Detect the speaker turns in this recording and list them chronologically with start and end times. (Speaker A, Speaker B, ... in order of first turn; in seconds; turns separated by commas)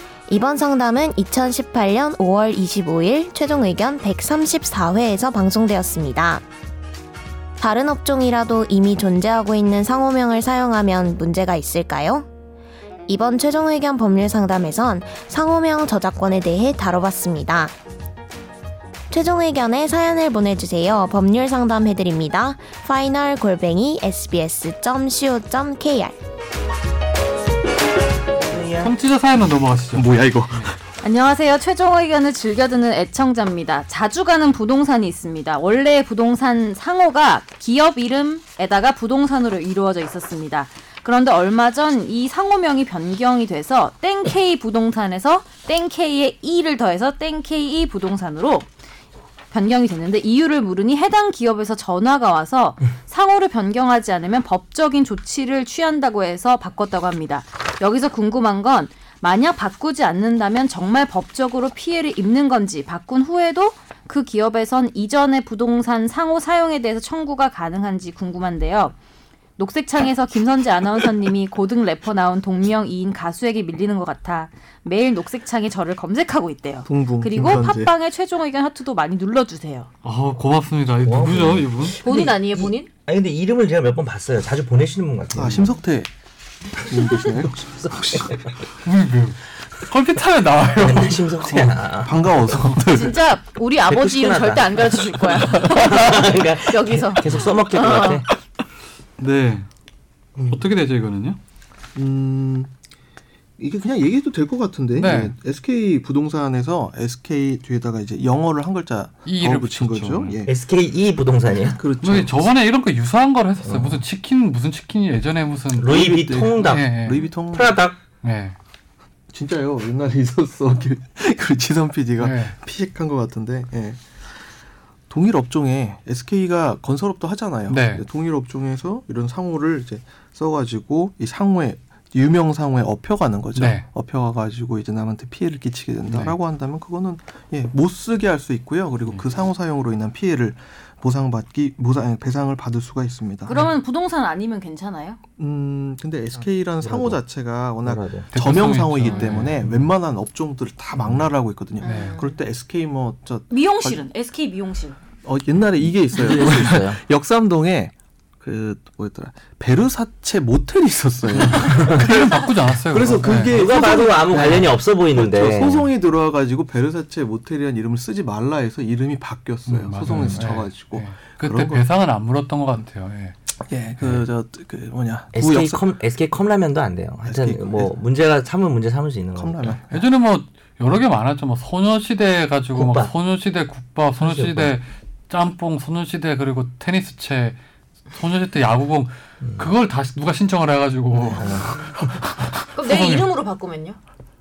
Speaker A: 0.3-6.4, Speaker A: 7.6-12.2, Speaker A: 13.1-17.7, Speaker A: 19.1-26.2, Speaker B: 28.4-28.9, Speaker C: 28.8-30.7, Speaker D: 29.9-30.7, Speaker E: 31.0-48.7, Speaker E: 49.5-69.0, Speaker E: 69.6-79.9, Speaker D: 76.8-77.9, Speaker C: 80.0-82.0, Speaker B: 81.0-85.7, Speaker E: 82.0-82.9, Speaker D: 85.3-86.1, Speaker D: 86.8-88.5, Speaker B: 87.8-88.4, Speaker C: 88.8-91.2, Speaker B: 90.8-92.2, Speaker D: 91.5-93.2, Speaker E: 92.9-98.2, Speaker B: 93.8-98.3, Speaker C: 99.2-99.7, Speaker D: 100.4-100.7, Speaker C: 100.5-101.4, Speaker D: 101.9-102.7, Speaker D: 103.6-110.5, Speaker C: 104.9-105.3, Speaker C: 109.2-110.4, Speaker B: 110.5-111.8, Speaker D: 111.6-112.5, Speaker C: 112.0-116.0, Speaker B: 113.6-114.0, Speaker B: 115.8-118.0, Speaker D: 115.8-117.8, Speaker C: 116.6-117.3, Speaker C: 118.2-118.5, Speaker D: 119.3-124.0, Speaker C: 122.2-122.5, Speaker D: 125.1-143.6, Speaker C: 127.7-128.0, Speaker C: 133.5-133.8, Speaker C: 136.1-136.3, Speaker E: 143.5-145.2, Speaker D: 145.4-154.0, Speaker B: 146.8-147.2, Speaker B: 147.8-148.3, Speaker C: 148.3-149.9, Speaker E: 149.1-149.3, Speaker E: 151.8-152.3, Speaker C: 151.8-152.2, Speaker E: 153.5-155.0, Speaker D: 155.2-171.8, Speaker B: 155.8-157.0, Speaker C: 161.3-164.8, Speaker B: 163.4-165.9, Speaker C: 169.7-173.3, Speaker D: 173.6-175.8, Speaker B: 174.0-174.3, Speaker B: 175.3-179.8, Speaker D: 177.2-178.0, Speaker D: 179.3-180.1, Speaker C: 179.9-187.6, Speaker B: 182.7-183.1, Speaker B: 184.2-184.7, Speaker C: 188.1-191.8, Speaker D: 191.2-191.9, Speaker C: 192.6-193.3, Speaker E: 192.7-194.0